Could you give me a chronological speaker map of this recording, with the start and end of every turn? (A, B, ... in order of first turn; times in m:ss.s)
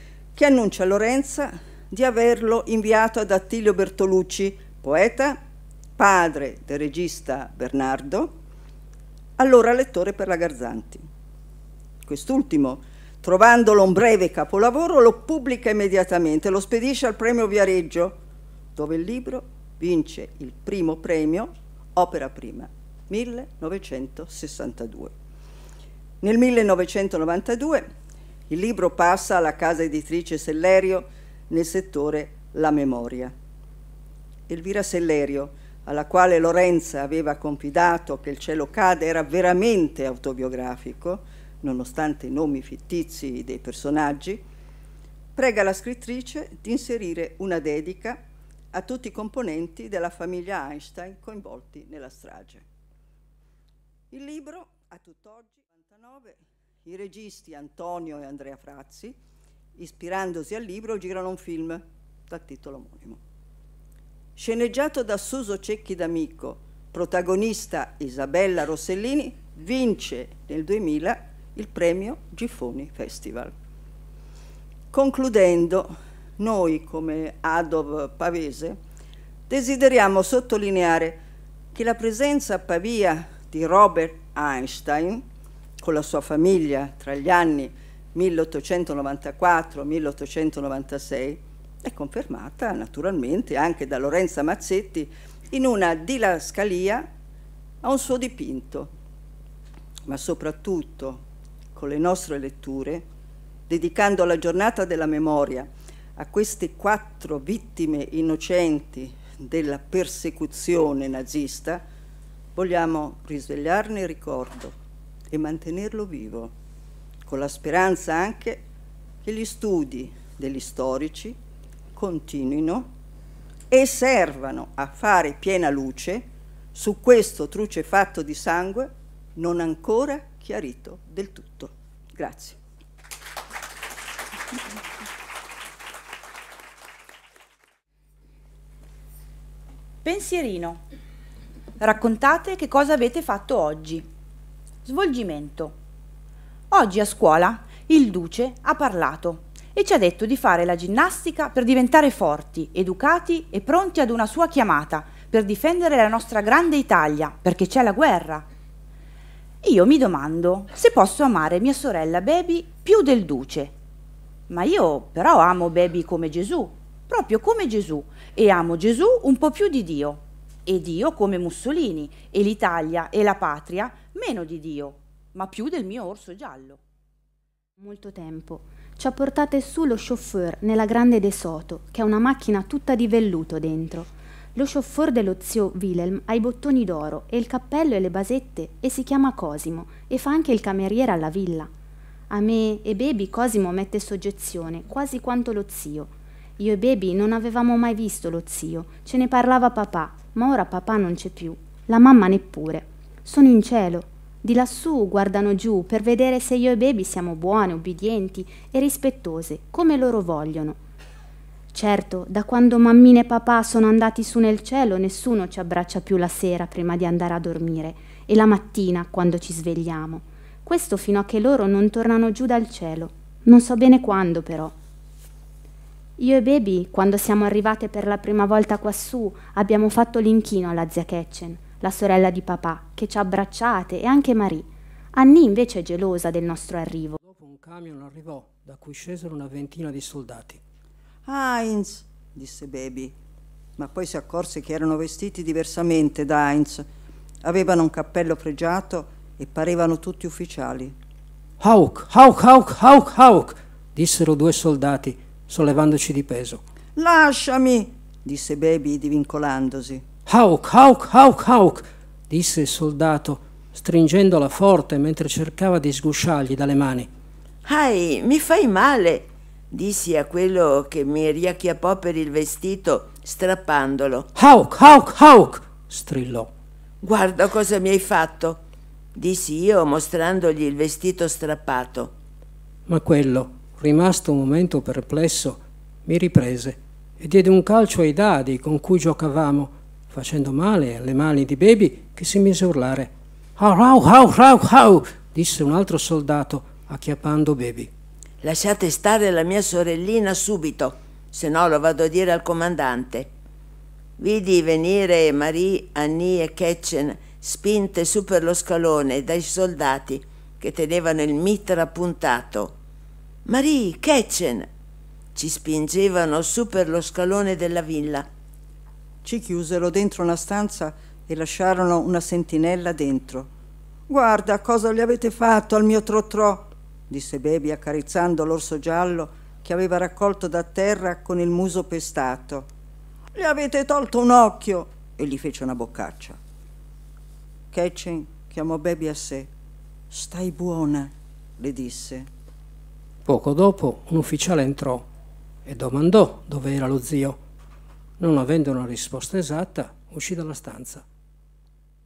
0:00.4-0:05.4 A
0:06.0-0:08.3 A
0:09.4-0:11.0 A
0:12.0-0:18.2 A
0:18.8-0:25.1 A
0:26.2-0:27.9 A
0:28.5-0:33.3 A
0:34.5-0:44.4 A
0:45.4-0:52.6 A
0:54.1-0:59.2 A
0:59.8-1:03.2 A
1:04.4-1:13.5 A
1:14.9-1:18.8 A
1:19.5-1:21.2 A
1:21.7-1:25.2 A
1:25.8-1:37.0 A
1:37.8-1:38.9 A
1:40.1-1:43.0 A
1:43.7-1:51.8 A
1:52.6-1:54.8 A
1:55.3-1:56.5 A
1:57.3-1:58.6 A
1:59.2-2:01.4 A
2:02.0-2:02.9 A
2:03.7-2:12.6 A
2:20.0-2:20.8 B
2:21.8-2:24.0 B
2:24.9-2:25.7 B
2:26.7-2:38.4 B
2:39.6-2:43.7 B
2:44.5-2:56.8 B
2:57.8-3:11.7 C
3:12.3-3:30.8 C
3:31.7-3:44.8 C
3:46.2-3:57.2 C
3:57.2-4:00.6 D
4:01.3-4:03.1 A
4:03.8-4:06.8 A
4:07.4-4:11.0 A
4:11.6-4:16.6 D
4:17.0-4:20.0 A
4:20.3-4:27.1 D
4:27.6-4:34.3 E
4:34.4-4:36.5 D
4:37.0-4:38.6 E
4:39.2-4:42.1 E
4:42.9-4:57.9 D
4:58.4-5:03.3 E
5:04.2-5:12.8 E
5:13.5-5:14.7 E
5:15.4-5:18.3 E
5:19.2-5:23.5 A
5:24.1-5:32.7 A
5:33.4-5:36.4 A
5:37.7-5:39.5 A
5:40.1-5:42.3 A
5:43.3-5:45.1 D
5:45.7-5:47.4 D
5:48.2-5:51.0 D